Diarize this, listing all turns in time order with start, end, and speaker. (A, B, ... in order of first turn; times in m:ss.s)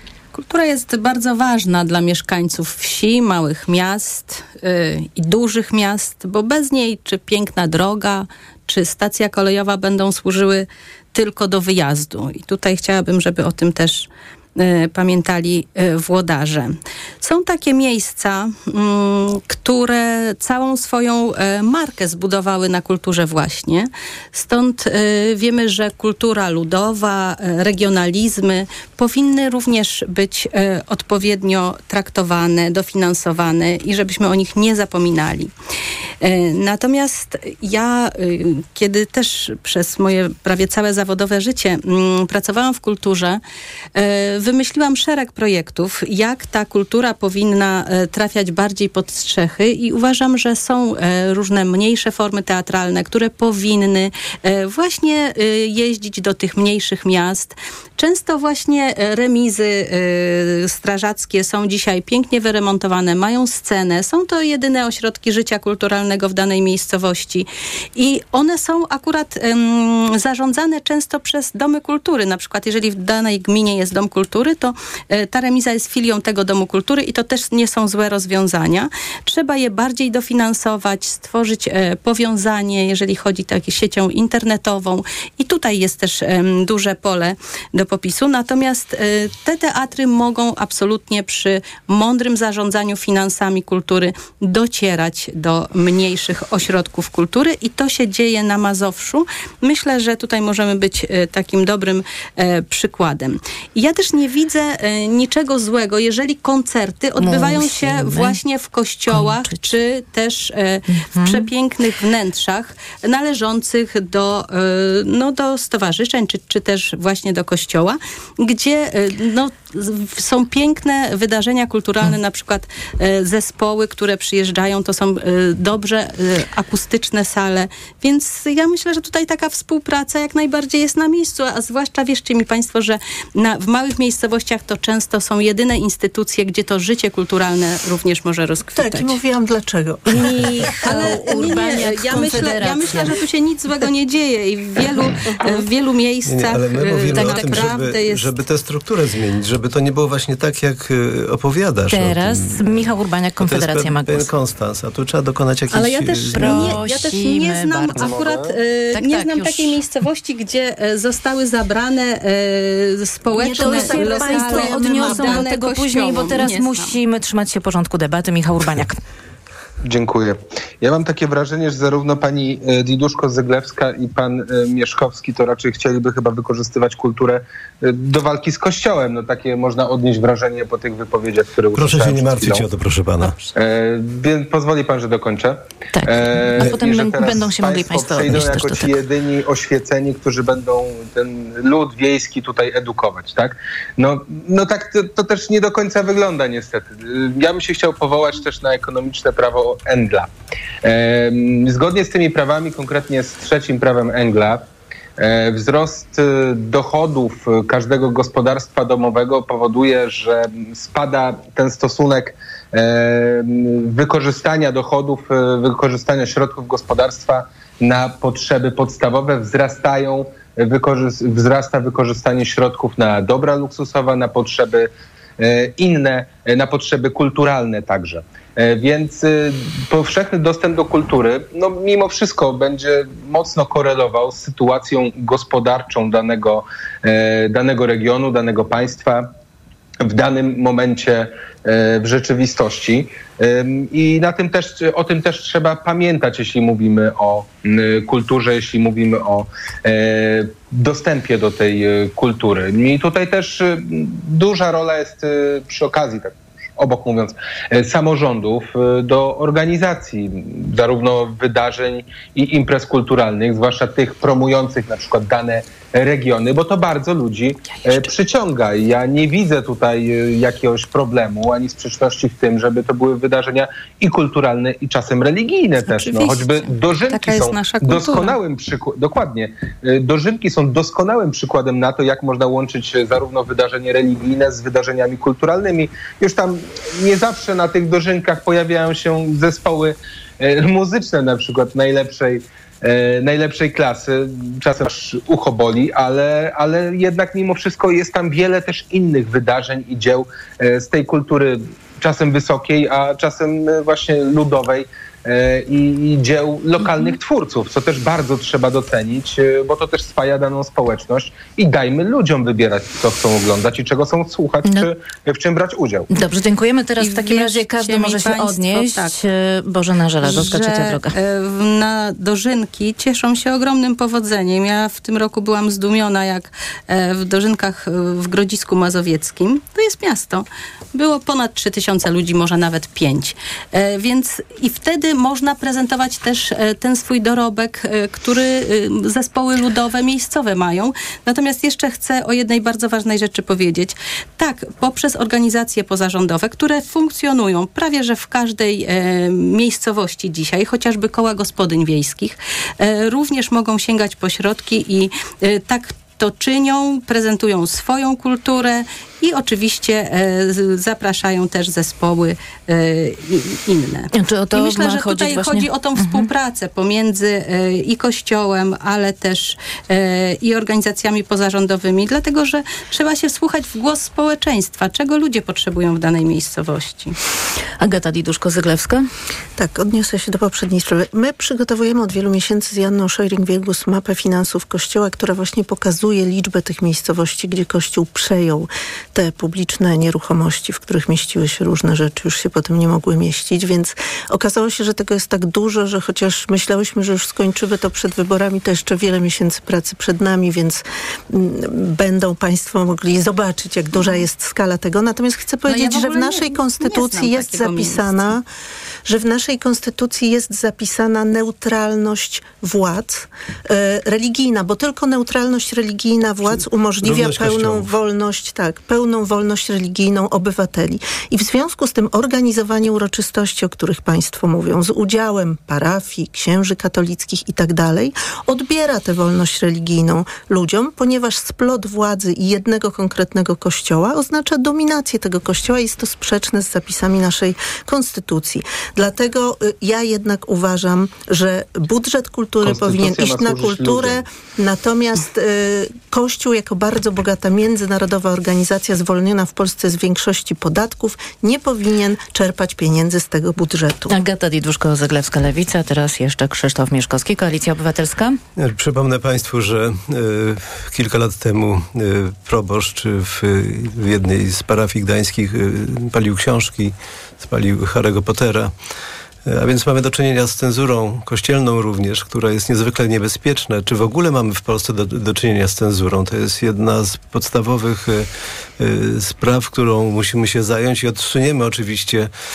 0:00.3-0:35.5 A
0:36.2-0:43.4 A
0:44.0-2:19.2 A
1:47.2-1:48.4 B
1:49.1-1:49.7 B
1:50.9-1:51.5 B
2:18.8-2:22.0 C
2:20.1-2:23.1 B
2:20.6-2:28.3 A
2:26.3-2:36.8 D
2:27.1-2:27.7 B
2:31.9-2:34.3 B
2:35.7-2:46.9 A
2:36.3-2:38.2 B
2:38.0-2:38.6 E
2:38.9-2:39.8 B
2:43.3-2:45.5 C
2:43.5-2:49.0 B
2:49.8-3:02.6 E
3:01.8-3:03.4 D
3:03.2-3:03.5 A
3:03.6-3:20.3 E
3:05.9-3:09.0 B
3:20.8-3:24.6 E
3:25.2-3:59.3 E
4:00.0-5:16.1 E
4:35.9-4:38.4 A
5:16.1-5:21.2 B
5:17.0-5:19.2 A
5:20.2-6:17.2 A
6:04.1-6:06.3 B
6:17.8-6:19.0 B
6:19.6-6:48.5 C
6:45.6-6:48.3 A
6:49.0-7:34.2 C
6:57.0-6:57.9 D
7:22.6-7:24.2 E
7:34.1-7:38.4 B
7:38.6-7:48.7 D
7:49.5-7:58.3 D
7:58.8-8:02.3 D